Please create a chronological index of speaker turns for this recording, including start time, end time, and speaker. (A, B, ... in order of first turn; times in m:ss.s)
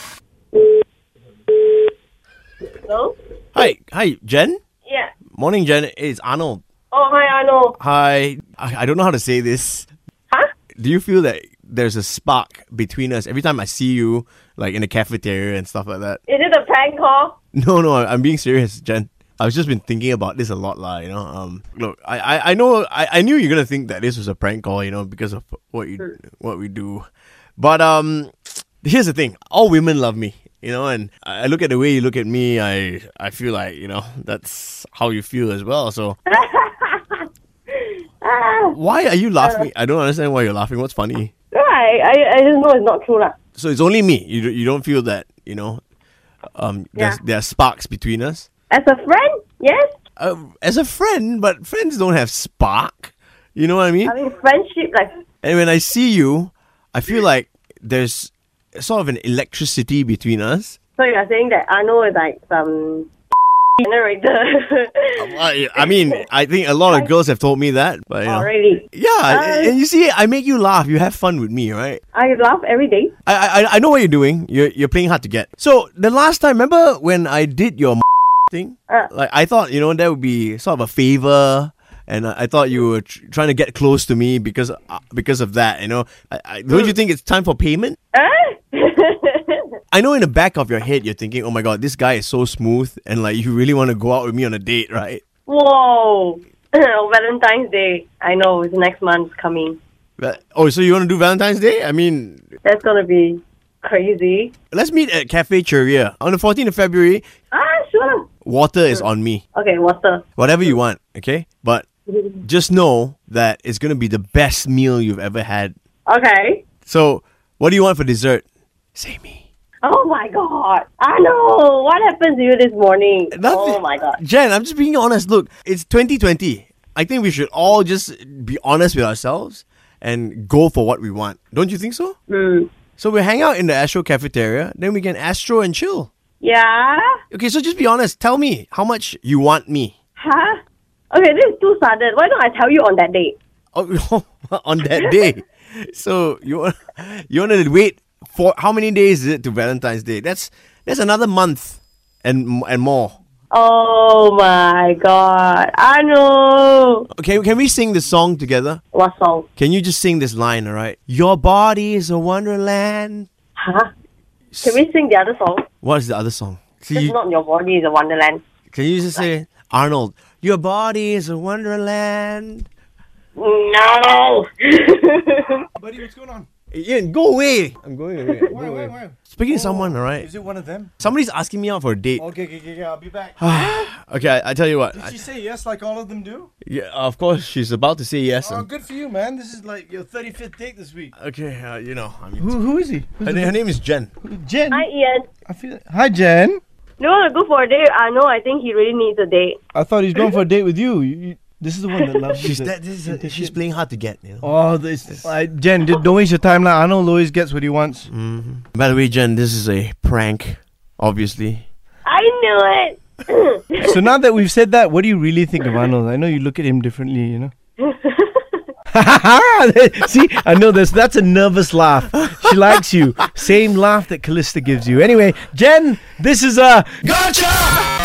0:02.8-0:03.2 A
0:03.6-0:04.6 B
0:04.8-0:05.1 A
0:05.3-0:06.6 B
0:06.9-0:07.8 A
0:07.8-0:09.9 B
0:10.8-0:16.2 B
0:16.3-0:17.4 A
0:17.5-0:27.1 B
0:27.6-0:36.2 B
0:36.3-0:38.8 A
0:38.7-0:41.3 B
0:39.4-0:39.7 A
0:41.5-0:43.4 A
0:43.6-0:45.8 B
0:46.6-0:48.5 B
0:48.7-0:49.9 A
0:50.2-0:54.2 B
0:54.0-0:55.2 A
0:55.4-1:00.8 B
1:01.0-1:03.1 A
1:03.8-1:05.2 A
1:05.2-1:12.0 B
1:05.8-1:06.2 A
1:08.3-1:09.8 A
1:12.1-1:13.1 A
1:13.3-1:28.0 B
1:28.1-1:29.6 A
1:29.9-1:35.2 B
1:35.5-1:39.8 A
1:40.2-1:42.5 B
1:42.6-1:44.5 A
1:44.7-1:47.2 B
1:47.5-1:48.3 A
1:48.4-1:49.4 B
1:48.9-1:50.7 A
1:50.4-1:51.9 B
1:52.1-1:52.4 A
1:52.4-1:55.8 B
1:56.1-1:56.6 A
1:56.8-1:59.4 B
1:59.8-2:04.2 A
2:03.3-2:12.2 B
2:12.3-2:12.7 A
2:13.0-2:16.1 B
2:16.4-2:17.2 A
2:17.3-2:19.9 B
2:20.2-2:20.6 A
2:21.1-2:23.4 A
2:23.7-2:33.2 B
2:25.0-2:25.2 A
2:33.5-2:37.1 A
2:37.1-2:38.8 B
2:38.9-2:39.5 A
2:39.6-2:43.3 B
2:43.6-2:43.9 A
2:44.5-2:44.8 B
2:44.6-2:45.7 A
2:45.8-2:47.2 B
2:47.0-2:48.4 A
2:48.7-2:52.7 B
2:53.4-2:55.7 A
2:55.8-2:56.5 C
2:56.7-3:00.3 B
2:58.5-3:01.0 C
3:01.0-3:02.3 B
3:02.2-3:03.8 C
3:03.4-3:05.2 B
3:05.0-3:06.5 C
3:06.6-3:08.7 B
3:08.4-3:11.1 C
3:11.2-3:12.6 B
3:12.4-3:13.6 C
3:13.2-3:14.1 B
3:14.2-3:14.9 C
3:14.7-3:15.3 A
3:15.5-3:16.6 C
3:17.0-3:19.6 A
3:19.7-3:23.5 C
3:22.4-3:24.5 B
3:24.4-3:28.1 C
3:28.1-3:31.7 B
3:32.0-3:34.0 A
3:33.8-3:37.5 C
3:37.8-3:38.6 A
3:38.9-3:47.8 C
3:42.1-3:42.8 B